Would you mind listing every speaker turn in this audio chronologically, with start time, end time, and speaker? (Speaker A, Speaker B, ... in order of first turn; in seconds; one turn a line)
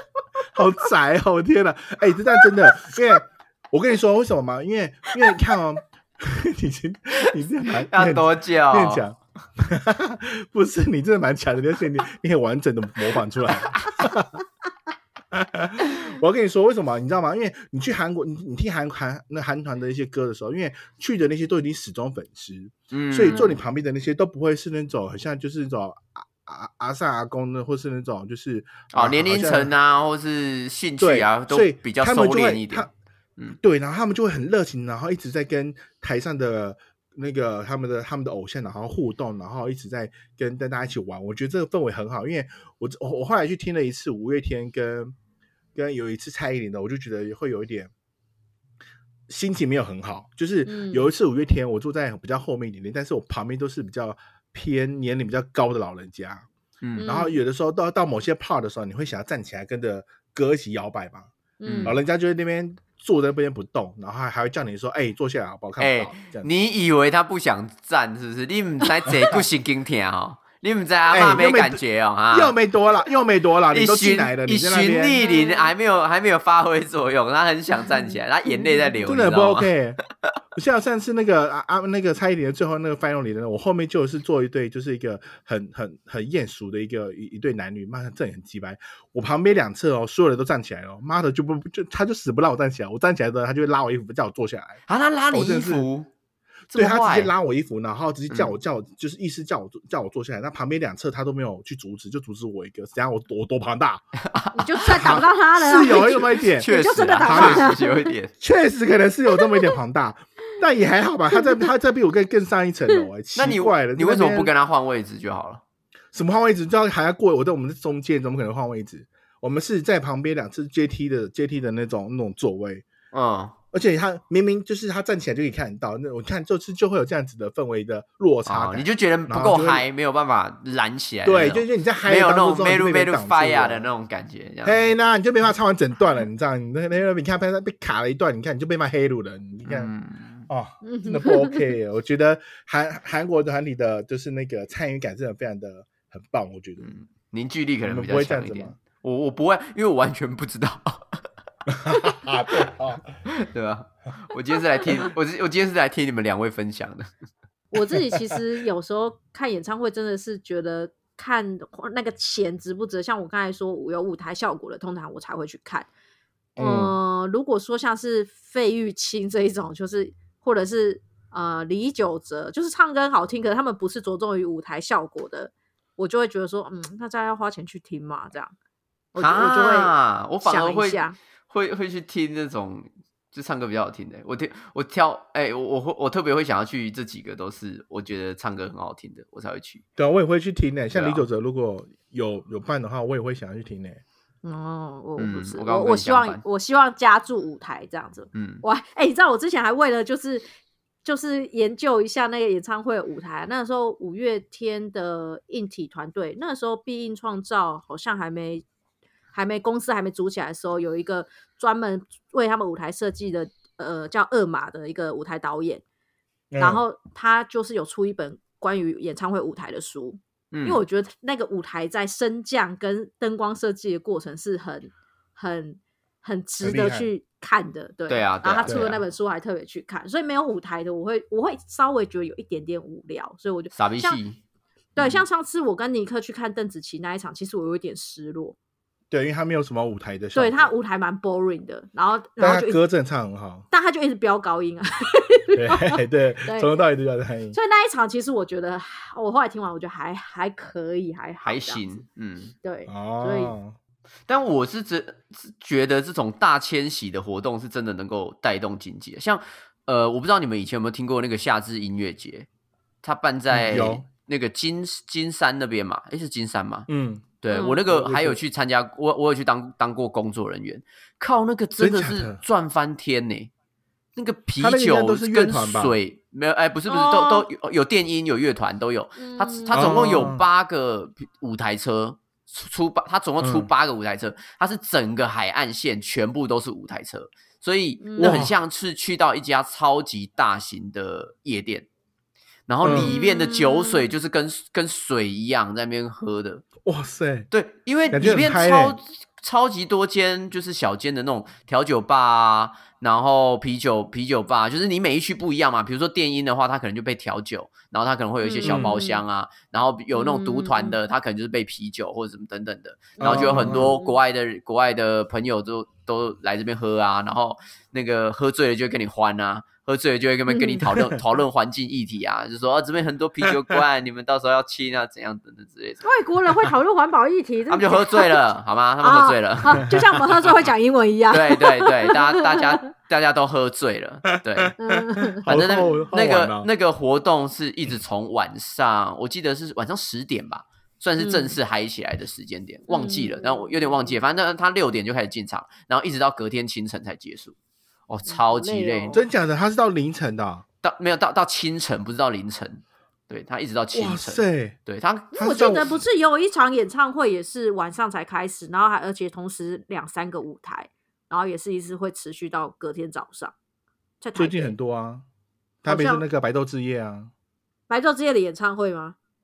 Speaker A: 0.5-14.4
Speaker B: 2.4-3.0
Speaker C: 7.9-9.0
Speaker A: 15.3-29.7
Speaker C: 22.9-23.5
Speaker C: 28.9-32.9
Speaker A: 31.0-32.9
Speaker A: 33.6-45.1
Speaker A: 45.7-47.9
Speaker A: 49.3-56.5
Speaker B: 50.6-51.1
Speaker C: 56.8-57.1
Speaker B: 57.0-57.4
Speaker A: 57.0-61.3
Speaker B: 61.6-62.0
Speaker C: 61.6-62.0
Speaker A: 61.8-66.5
Speaker C: 65.8-72.5
Speaker A: 71.1-75.2
Speaker C: 73.7-79.7
Speaker B: 75.2-75.7
Speaker B: 77.8-78.9
Speaker A: 79.0-80.0
Speaker A: 80.5-94.8
Speaker C: 94.9-96.1
Speaker A: 95.3-95.9
Speaker C: 96.7-97.3
Speaker A: 96.7-104.0
Speaker C: 104.3-104.6
Speaker B: 104.5-108.1
Speaker A: 104.8-106.7
Speaker C: 106.6-108.3
Speaker A: 107.2-107.7
Speaker A: 108.4-114.5
Speaker B: 109.3-109.7
Speaker B: 111.3-111.6
Speaker C: 113.3-115.6
Speaker A: 116.1-122.9
Speaker C: 123.1-123.5
Speaker A: 123.7-129.8
Speaker C: 128.4-134.9
Speaker A: 131.2-133.9
Speaker A: 134.6-139.9
Speaker C: 139.7-140.5
Speaker A: 140.5-146.9
Speaker B: 140.8-141.7
Speaker C: 146.8-151.2
Speaker A: 147.8-148.8
Speaker A: 151.7-153.0
Speaker C: 153.3-157.1
Speaker B: 157.7-165.9
Speaker A: 166.6-166.9
Speaker B: 166.6-178.5
Speaker B: 179.1-181.2
Speaker C: 179.2-189.8
Speaker A: 190.0-194.0
Speaker C: 190.9-191.2
Speaker B: 194.4-200.5
Speaker C: 195.2-196.4
Speaker C: 198.3-198.6
Speaker B: 201.0-208.6
Speaker B: 209.3-215.8
Speaker A: 216.5-216.8
Speaker B: 216.6-234.2
Speaker C: 220.5-220.8
Speaker A: 226.6-227.1
Speaker C: 228.1-229.0
Speaker A: 228.6-228.9
Speaker C: 233.7-234.4
Speaker B: 234.9-238.6
Speaker A: 239.1-240.7
Speaker B: 240.3-242.8
Speaker A: 242.4-243.7
Speaker B: 243.7-246.7
Speaker A: 245.5-247.6
Speaker B: 247.5-251.8
Speaker C: 251.4-252.5
Speaker B: 252.6-253.5
Speaker A: 252.9-253.8
Speaker C: 254.3-262.5
Speaker C: 263.0-266.9
Speaker A: 263.5-264.0
Speaker A: 266.9-268.4
Speaker C: 267.4-273.5
Speaker B: 267.5-267.8
Speaker A: 271.8-272.4
Speaker C: 274.1-291.9
Speaker A: 274.6-275.9
Speaker B: 276.9-277.5
Speaker B: 279.2-280.3
Speaker A: 279.7-280.4
Speaker A: 283.4-283.7
Speaker B: 288.0-288.4
Speaker A: 288.2-288.6
Speaker C: 292.7-296.7
Speaker A: 292.8-293.1
Speaker B: 292.9-294.1
Speaker A: 296.8-297.5
Speaker C: 297.5-326.0
Speaker A: 298.1-299.0
Speaker B: 308.4-309.2
Speaker A: 308.6-309.0
Speaker B: 310.1-311.0
Speaker B: 313.1-314.2
Speaker A: 313.2-313.9
Speaker B: 320.5-320.9
Speaker A: 320.9-321.2
Speaker B: 326.0-328.4
Speaker C: 327.7-329.9
Speaker B: 329.0-332.9
Speaker C: 331.3-334.8
Speaker B: 334.8-335.5
Speaker C: 335.3-347.5
Speaker A: 335.4-336.7
Speaker B: 341.2-341.6
Speaker B: 342.9-344.1
Speaker C: 348.1-349.2
Speaker B: 348.3-349.2
Speaker A: 349.1-350.6
Speaker C: 350.8-355.8
Speaker A: 353.9-354.8
Speaker A: 355.3-356.0
Speaker B: 355.3-363.5
Speaker B: 364.2-364.7
Speaker A: 364.3-365.2
Speaker A: 365.8-367.3
Speaker B: 365.9-366.2
Speaker B: 367.9-369.1